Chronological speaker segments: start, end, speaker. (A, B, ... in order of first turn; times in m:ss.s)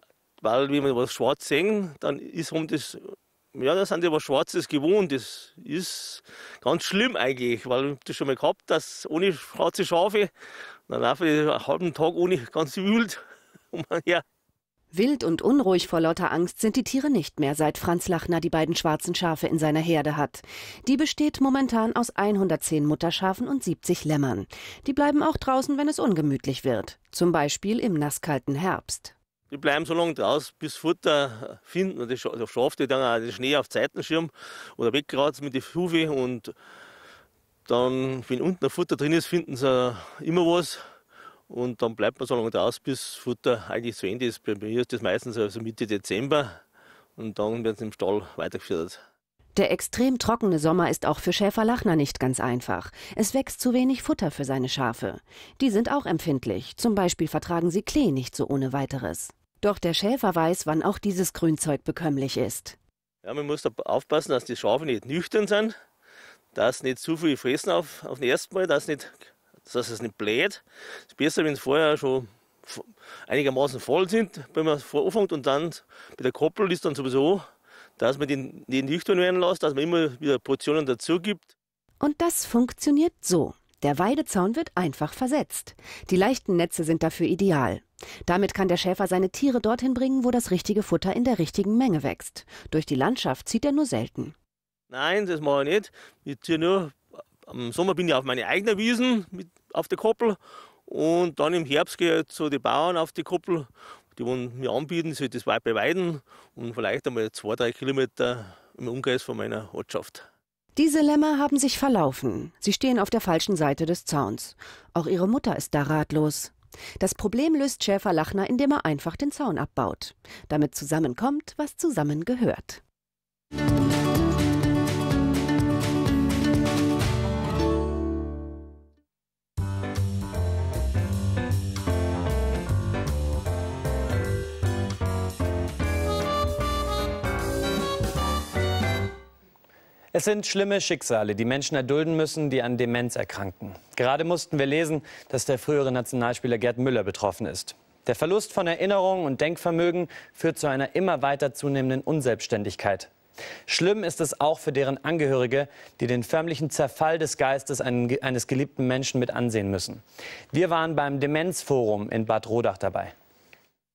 0:00.4-0:10.3 A
0:10.9-0:13.2 A
0:13.7-0:14.2 A
0:14.9-0:29.1 B
0:29.5-0:36.5 A
0:37.7-0:40.8 A
0:41.5-0:46.6 A
0:47.2-0:49.0 A
0:49.6-1:02.8 B
1:03.2-1:05.8 A
1:06.5-1:17.5 A
1:18.0-1:21.5 A
1:22.0-1:34.4 B
1:34.9-1:50.2 A
1:50.8-2:02.8 B
2:20.1-2:33.1 C
2:33.7-2:43.1 C